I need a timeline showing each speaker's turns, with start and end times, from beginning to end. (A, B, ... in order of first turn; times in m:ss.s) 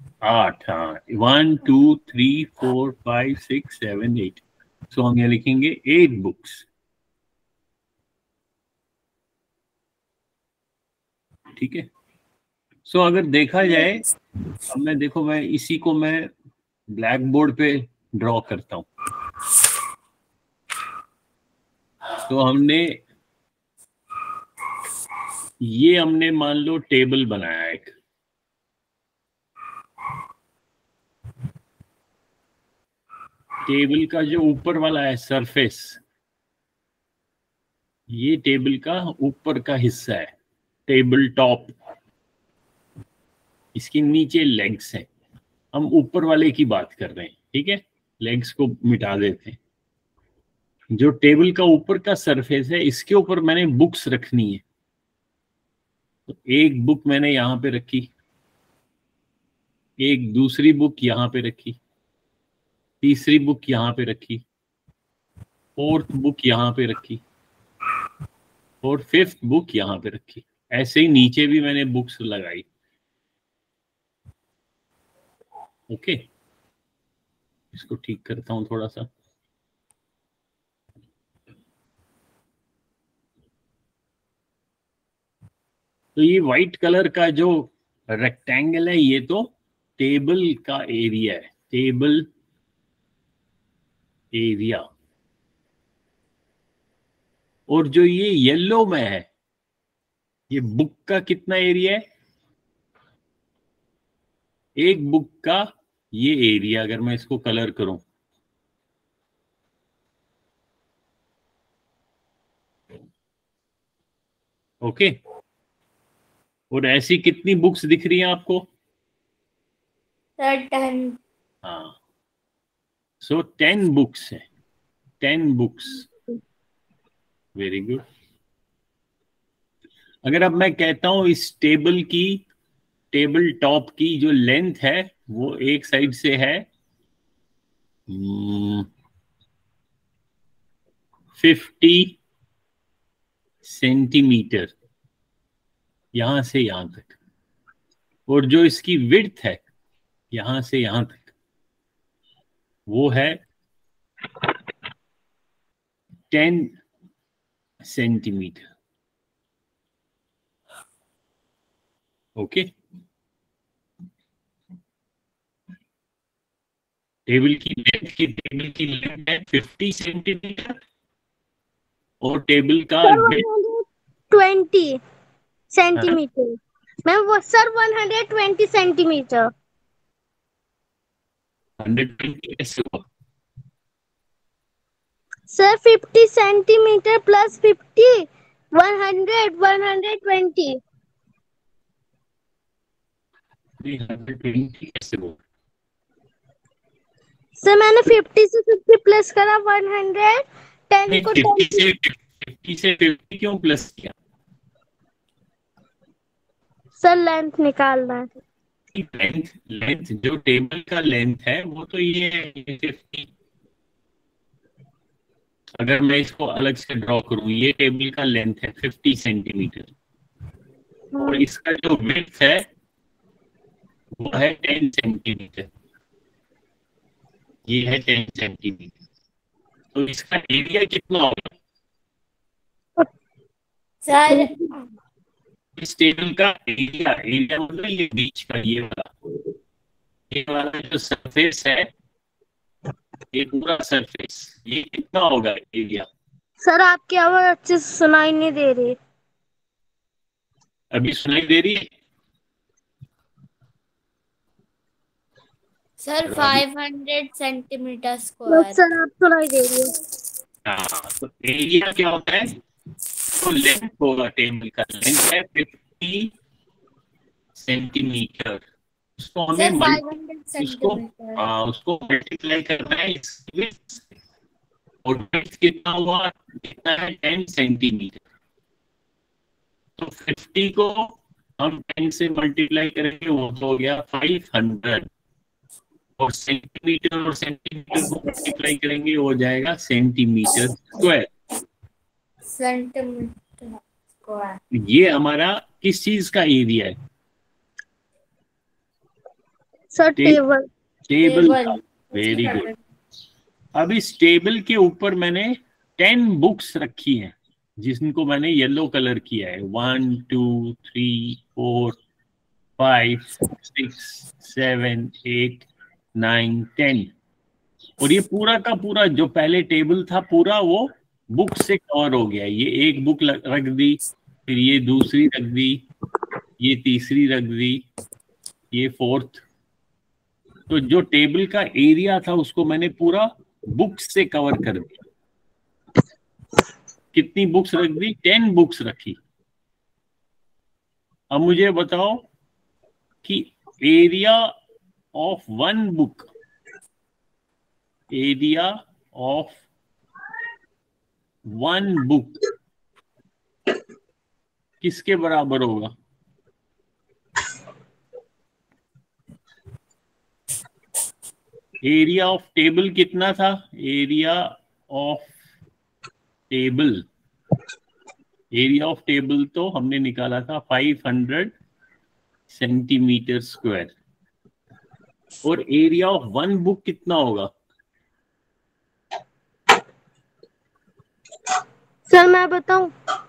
0:00.2-0:06.7 A
0:11.6-0:11.9 A
0:12.9-0:14.0 A
0:14.7-0:16.3 A
0:16.9-0:18.9 A
0:22.2-0:23.0 A
0:25.6-0:28.0 A
0:33.6-0:36.0 A
0:38.1-0:40.3 A
0:40.9-0:41.8 A
0:43.8-0:45.1 A
0:45.7-0:49.6 A
0:50.9-0:54.6 A
0:56.3-0:58.1 A
1:00.0-1:01.8 A
1:03.0-1:04.4 A
1:05.8-1:07.2 A
1:08.8-1:12.7 A
1:15.9-1:16.3 A
1:17.7-1:19.1 A
1:26.2-1:32.3 A
1:34.3-1:34.9 A
1:37.7-1:39.3 A
1:40.5-1:42.0 A
1:44.8-1:48.0 A
1:54.8-1:55.2 A
1:56.7-1:58.7 A
2:00.4-2:01.2 B
2:01.6-2:02.0 A
2:03.2-2:04.4 A
2:05.2-2:06.1 A
2:07.6-2:08.0 A
2:10.2-2:12.4 A
2:13.1-2:16.7 A
2:18.1-2:18.9 A
2:21.4-2:22.2 A
2:23.6-2:24.7 A
2:26.1-2:27.2 A
2:28.3-2:29.6 A
2:30.3-2:31.3 A
2:32.9-2:33.4 A
2:36.3-2:36.8 A
2:37.8-2:38.7 A
2:42.4-2:42.7 A
2:47.3-2:50.8 A
2:52.2-2:53.5 A
2:53.0-2:55.0 C
2:55.7-2:59.5 C
3:01.8-3:03.1 A
3:05.5-3:10.8 C
3:13.8-3:15.4 A
3:17.6-3:21.8 C
3:21.1-3:24.1 A
3:27.0-3:28.3 C
3:28.9-3:33.3 A
3:35.8-3:39.9 A
3:41.1-3:41.4 C
3:41.2-3:42.7 A
3:44.2-3:45.7 A
3:47.7-3:48.9 A
3:49.9-3:51.5 A
3:54.1-3:54.6 B
3:54.3-3:54.7 C
3:55.8-3:59.1 A
4:00.3-4:01.9 A
4:03.3-4:06.1 A
4:06.6-4:09.0 C
4:10.9-4:11.9 A
4:16.0-4:18.8 B
4:16.3-4:16.6 A
4:18.5-4:20.0 C
4:20.7-4:22.5 A
4:23.3-4:26.3 A
4:27.6-4:28.6 A
4:29.2-4:30.0 A
4:29.6-4:31.5 B
4:30.6-4:34.1 A
4:35.0-4:38.2 A
4:40.0-4:45.1 A
4:46.2-4:51.3 A
4:52.5-4:54.6 B
4:54.7-4:57.0 A
4:59.9-5:00.7 C
5:01.1-5:02.7 A
5:01.2-5:02.8 B
5:03.8-5:12.0 A
5:12.8-5:17.1 A
5:18.0-5:25.8 A
5:26.6-5:27.8 A
5:28.7-5:29.4 A
5:30.7-5:34.9 A
5:37.1-5:39.2 A
5:41.3-5:42.3 A
5:43.2-5:44.5 A
5:45.1-5:46.3 A
5:48.1-5:49.6 A
5:51.5-5:52.4 A
5:54.8-5:55.9 A
6:01.8-6:05.4 A
6:06.5-6:07.0 A
6:08.5-6:11.5 A
6:12.5-6:14.0 A
6:15.4-6:17.5 A
6:22.1-6:22.9 C